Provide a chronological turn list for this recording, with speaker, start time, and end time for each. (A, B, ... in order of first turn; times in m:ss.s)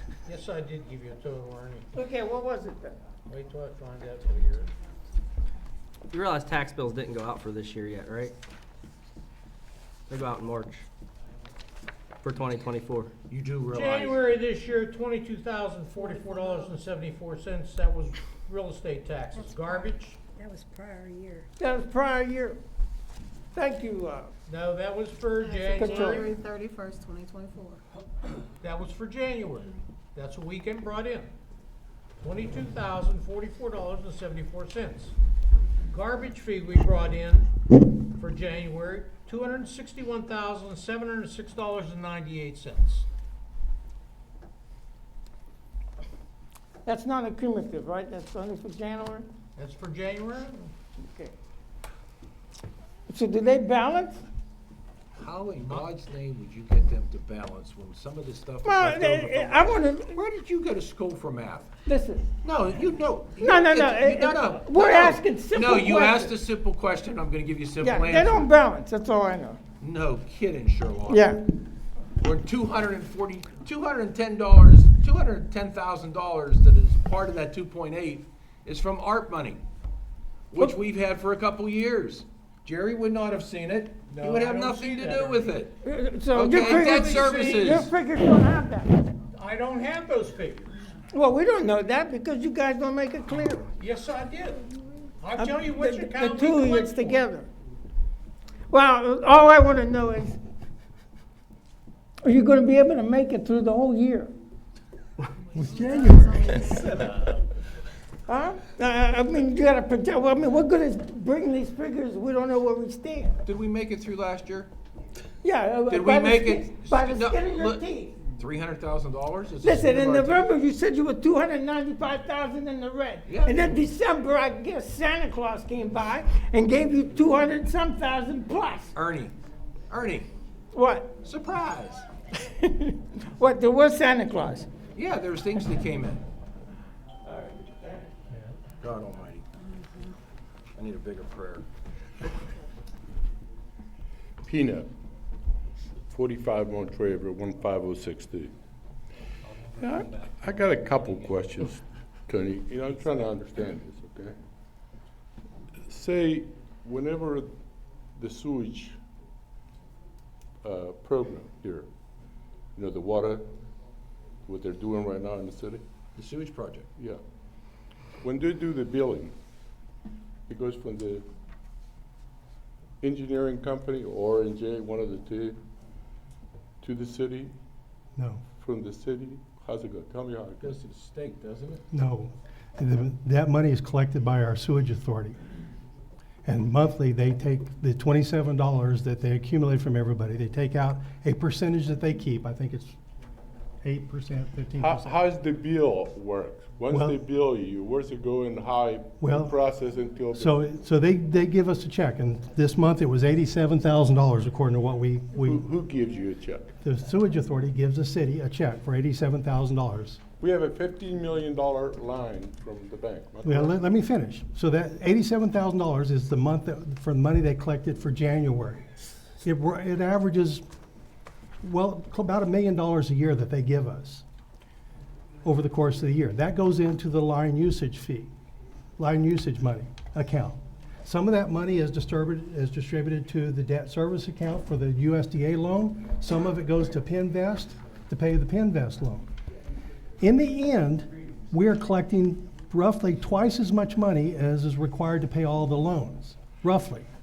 0:00.2-0:01.9 A
0:01.9-0:03.0 B
0:03.3-0:04.7 A
0:06.1-0:08.4 C
0:10.1-0:10.8 C
0:12.2-0:13.1 C
0:13.3-0:14.2 D
0:13.7-0:20.2 A
0:16.0-0:16.7 E
0:19.4-0:19.9 E
0:20.4-0:22.6 B
0:23.5-0:24.3 B
0:24.5-0:26.4 A
0:25.4-0:27.8 E
0:25.7-0:26.3 B
0:28.6-0:31.3 A
0:32.2-0:35.2 A
0:35.9-0:37.5 A
0:38.0-0:43.1 A
0:46.8-0:49.3 B
0:49.6-0:50.7 A
0:51.0-0:51.3 B
0:53.1-0:54.2 B
0:55.2-1:01.7 D
0:58.6-1:00.2 B
1:01.9-1:02.3 B
1:02.4-1:08.5 D
1:03.4-1:06.4 B
1:07.8-1:09.6 B
1:09.8-1:11.3 D
1:11.1-1:11.4 B
1:12.2-1:19.6 D
1:20.5-1:25.8 D
1:24.2-1:25.5 A
1:25.8-1:29.0 B
1:26.3-1:27.9 D
1:26.5-1:27.8 A
1:29.3-1:30.8 A
1:31.1-1:33.7 B
1:33.7-1:34.7 A
1:35.2-1:37.2 A
1:35.4-1:37.5 B
1:38.7-1:40.4 B
1:42.2-1:44.3 B
1:45.5-1:46.9 F
1:45.6-1:47.0 E
1:48.3-1:53.4 B
1:53.4-1:54.7 D
1:55.4-1:58.3 B
1:55.9-2:00.5 D
1:59.6-2:08.9 B
2:03.3-2:03.8 D
2:08.9-2:09.3 D
2:09.9-2:10.3 D
2:10.7-2:11.1 B
2:11.2-2:12.1 D
2:12.3-2:14.7 B
2:15.0-2:16.2 D
2:18.8-2:19.5 D
2:20.8-2:21.7 D
2:24.4-2:24.9 G
2:26.1-2:28.5 G
2:29.8-2:34.4 G
2:35.9-2:37.5 G
2:38.2-2:39.0 G
2:40.6-2:41.9 G
2:42.8-2:43.5 G
2:44.4-2:45.8 G
2:46.2-2:46.9 D
2:48.2-2:49.3 G
2:50.5-2:51.3 G
2:53.0-2:55.6 G
2:56.8-2:57.5 G
2:58.2-2:58.4 F
2:58.6-3:00.8 G
3:00.6-3:01.8 D
3:01.9-3:05.4 F
3:06.4-3:13.0 F
3:13.8-3:15.1 F
3:14.8-3:20.6 G
3:16.9-3:17.2 F
3:19.2-3:19.6 F
3:20.3-3:25.7 F
3:25.4-3:26.7 G
3:26.8-3:30.2 F
3:30.4-3:33.8 G
3:33.4-3:38.9 F
3:39.4-3:40.6 F
3:41.6-3:44.2 F
3:45.4-3:48.3 F
3:49.0-3:59.3 F
4:00.2-4:07.1 F